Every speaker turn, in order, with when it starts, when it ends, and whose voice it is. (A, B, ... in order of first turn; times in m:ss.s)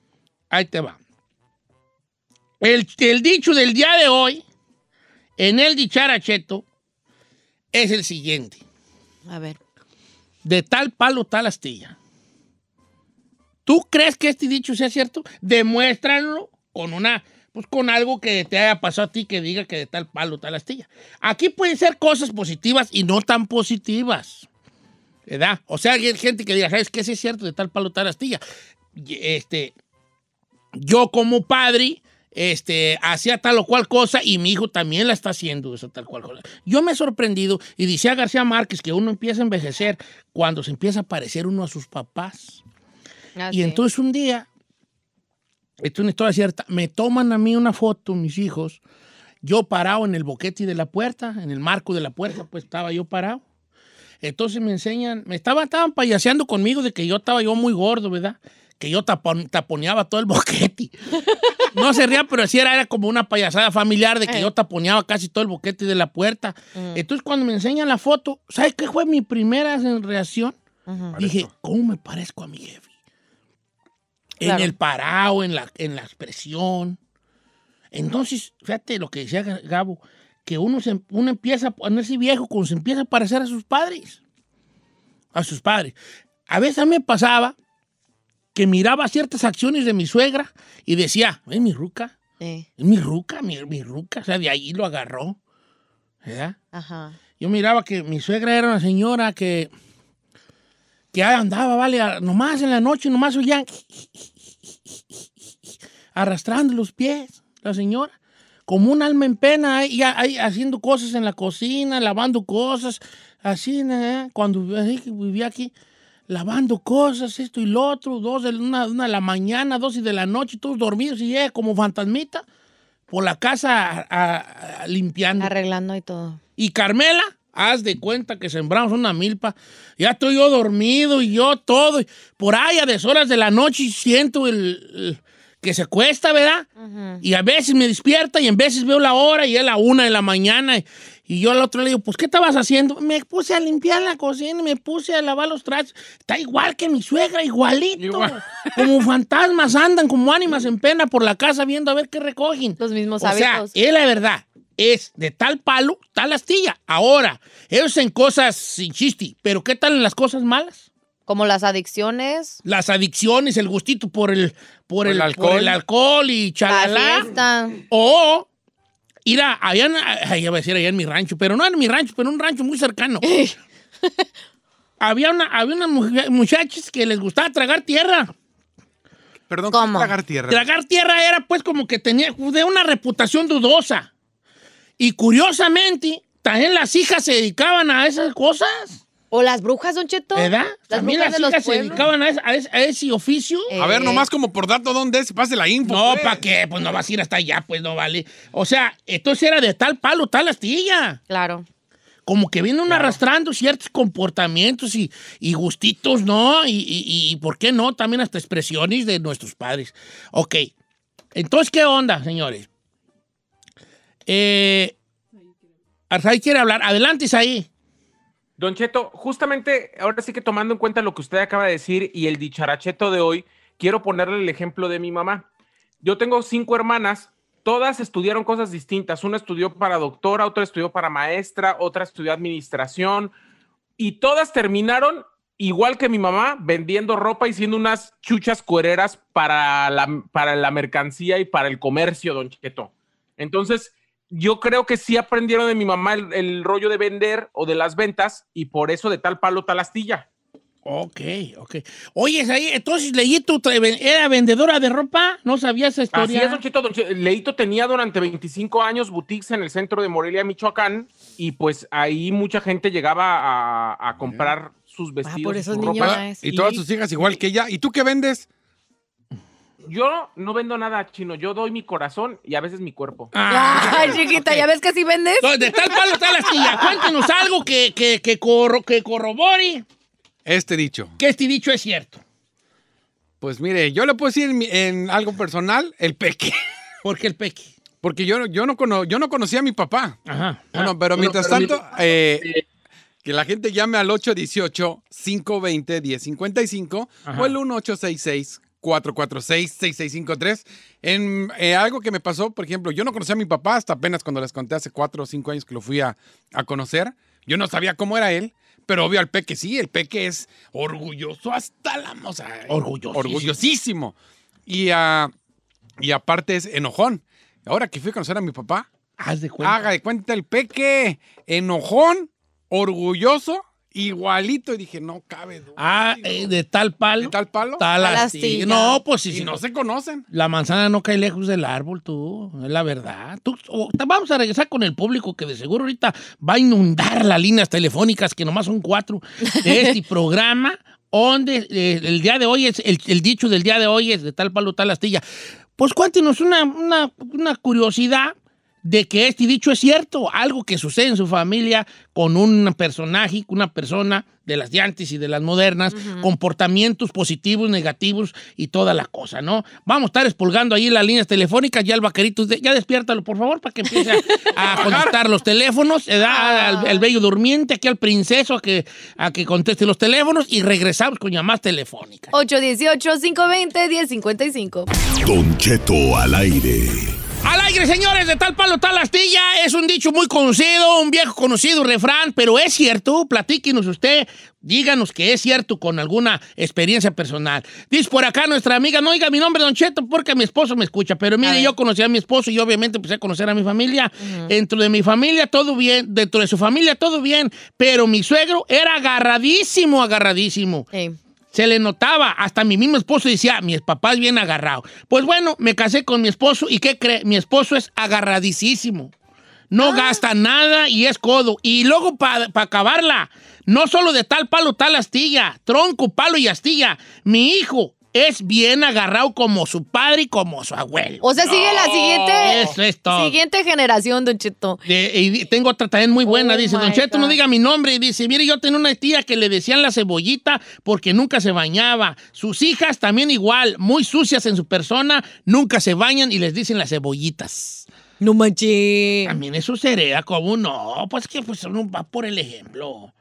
0:00.5-0:01.0 A
0:02.6-0:04.4 A
0:05.4-0:06.6 A
0:07.7-0:08.6 A
0:09.2-0:09.6 B
0:10.4-0:12.0 A
0:13.6-0:24.5 A
0:25.3-0:28.4 A
0:28.9-0:29.7 A
0:30.7-0:42.6 A
0:43.4-0:43.8 B
0:43.5-0:44.5 A
0:45.8-0:48.8 A
0:49.4-0:53.4 A
0:54.2-1:01.0 A
1:01.7-1:10.6 A
1:06.7-1:07.0 B
1:10.9-1:11.2 B
1:11.1-1:11.5 C
1:11.2-1:12.9 A
1:14.4-1:17.0 A
1:14.4-1:14.7 B
1:17.9-1:24.2 A
1:25.3-1:26.0 A
1:26.5-1:27.5 A
1:28.5-1:32.1 A
1:32.4-1:32.7 B
1:32.8-1:35.4 A
1:36.2-1:36.6 A
1:36.7-1:37.2 B
1:37.4-1:39.7 A
1:41.1-1:48.1 A
1:48.7-1:55.7 A
1:56.3-2:02.4 A
2:03.1-2:05.5 A
2:05.4-2:06.4 B
2:06.6-2:16.7 A
2:16.8-2:17.2 B
2:17.2-2:40.9 A
2:28.0-2:28.8 C
2:32.8-2:33.7 B
2:41.3-2:42.6 B
2:42.6-2:47.3 A
2:45.0-2:45.8 C
2:46.7-2:47.8 B
2:47.9-2:48.5 A
2:49.2-2:53.3 A
2:53.2-2:54.2 B
2:55.0-2:58.3 A
2:59.5-3:00.6 C
2:59.7-3:00.1 B
3:00.5-3:04.1 A
3:05.0-3:09.0 A
3:09.3-3:12.0 B
3:10.3-3:13.7 A
3:13.7-3:14.3 B
3:13.8-3:16.4 C
3:15.8-3:21.2 A
3:21.3-3:21.6 B
3:22.2-3:30.7 A
3:31.3-3:32.7 A
3:34.3-3:35.0 A
3:36.1-3:37.7 A
3:38.6-3:45.5 D
3:46.0-3:53.3 D
3:54.0-4:10.3 D
4:10.8-4:16.6 A
4:16.1-4:26.2 D
4:24.2-4:24.5 C
4:25.2-4:26.8 B
4:25.9-4:28.5 C
4:29.9-4:33.3 D
4:33.3-4:34.6 A
4:33.5-4:35.9 B
4:35.4-4:39.8 A
4:36.4-4:36.8 B
4:40.4-4:41.2 C
4:41.2-4:42.2 A
4:43.4-4:46.6 C
4:47.0-4:47.7 A
4:48.0-4:50.2 C
4:50.3-4:51.7 A
4:50.7-4:52.5 C
4:53.2-5:14.1 C
4:57.2-4:57.5 A
5:12.7-5:13.6 A
5:14.7-5:15.3 C
5:16.0-5:18.9 C
5:19.2-5:19.9 A
5:19.6-5:26.5 C
5:25.8-5:29.6 A
5:27.2-5:27.8 C
5:28.0-5:29.0 B
5:29.3-5:30.2 C
5:30.3-5:45.2 A
5:39.5-5:39.9 B
5:45.8-6:12.3 A
5:55.9-5:56.3 B
6:03.9-6:04.4 B
6:04.6-6:05.1 C
6:06.2-6:07.0 B
6:12.3-6:14.9 B
6:15.2-6:17.2 E
6:17.4-6:40.9 A
6:31.4-6:31.7 B
6:34.2-6:34.5 B
6:41.5-6:49.1 A
6:49.7-7:01.3 A
6:49.8-6:50.2 B
7:01.2-7:04.8 B
7:01.5-7:02.4 C
7:02.4-7:03.4 A
7:04.8-7:17.9 A
7:06.2-7:07.4 B
7:18.2-7:19.4 B
7:19.2-7:23.1 A